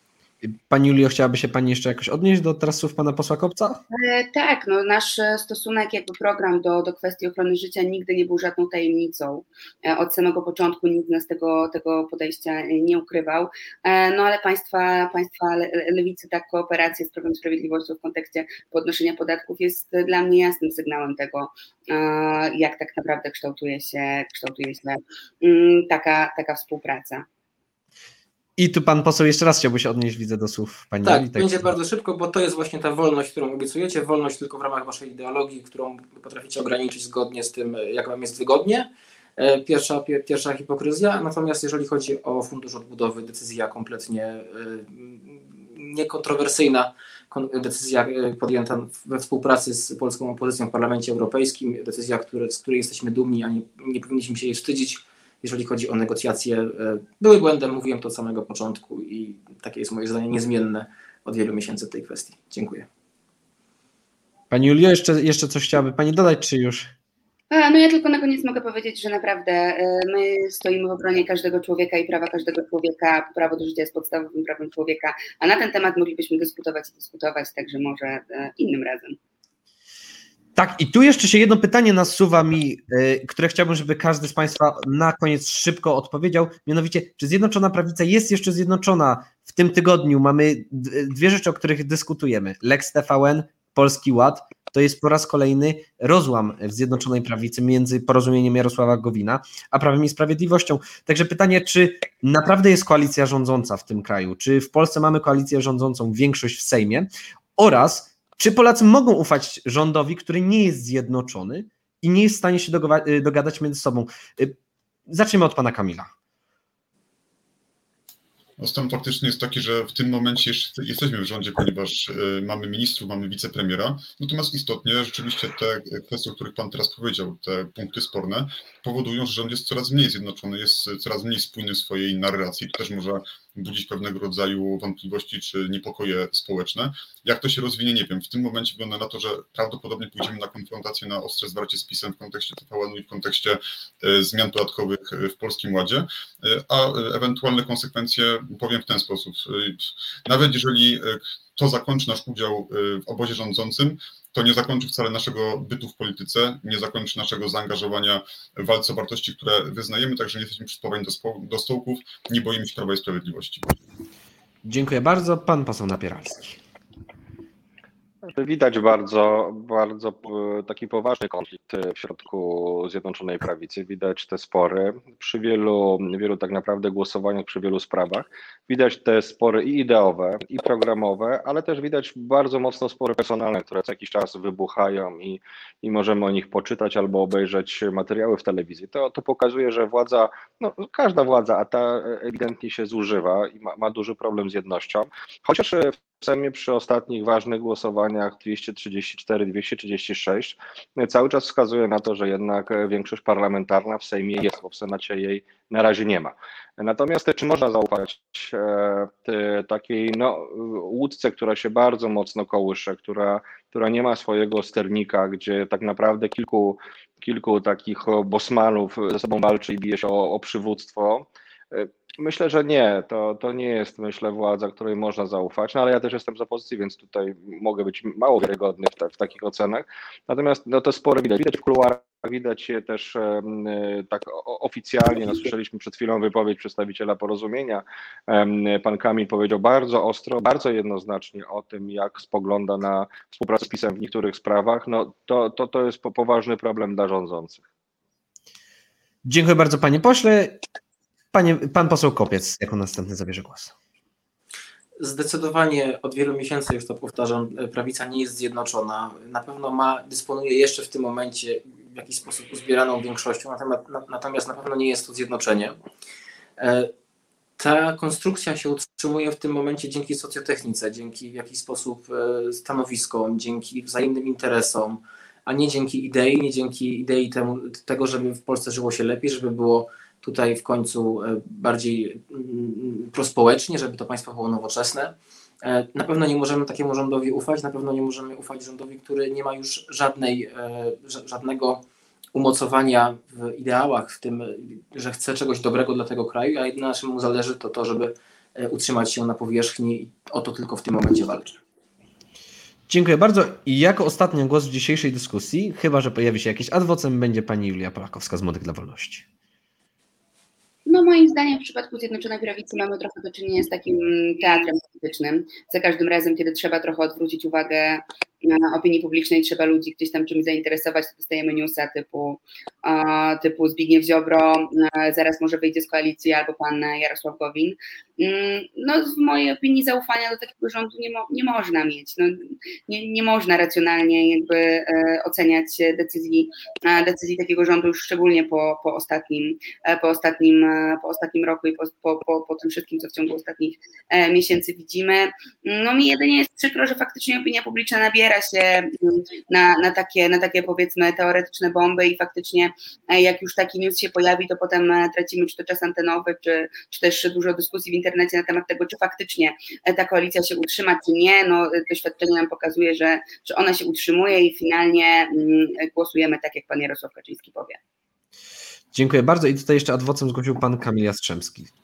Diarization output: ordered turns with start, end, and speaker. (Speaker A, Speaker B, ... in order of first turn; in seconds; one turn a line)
Speaker A: 0.4-3.8
Speaker B: 3.9-27.2
Speaker A: 28.6-31.7
Speaker C: 31.0-62.9
Speaker A: 64.5-66.9
Speaker B: 67.5-79.2
Speaker A: 80.5-114.5
Speaker A: 115.1-116.1
Speaker D: 118.6-163.7
Speaker A: 164.6-166.6
Speaker E: 168.3-247.6
Speaker A: 249.2-250.6
Speaker A: 251.3-253.7
Speaker C: 255.0-265.8
Speaker C: 266.6-266.9
Speaker C: 267.6-291.8
Speaker C: 292.3-301.6
Speaker A: 302.9-309.2
Speaker B: 310.9-367.8
Speaker A: 368.9-371.7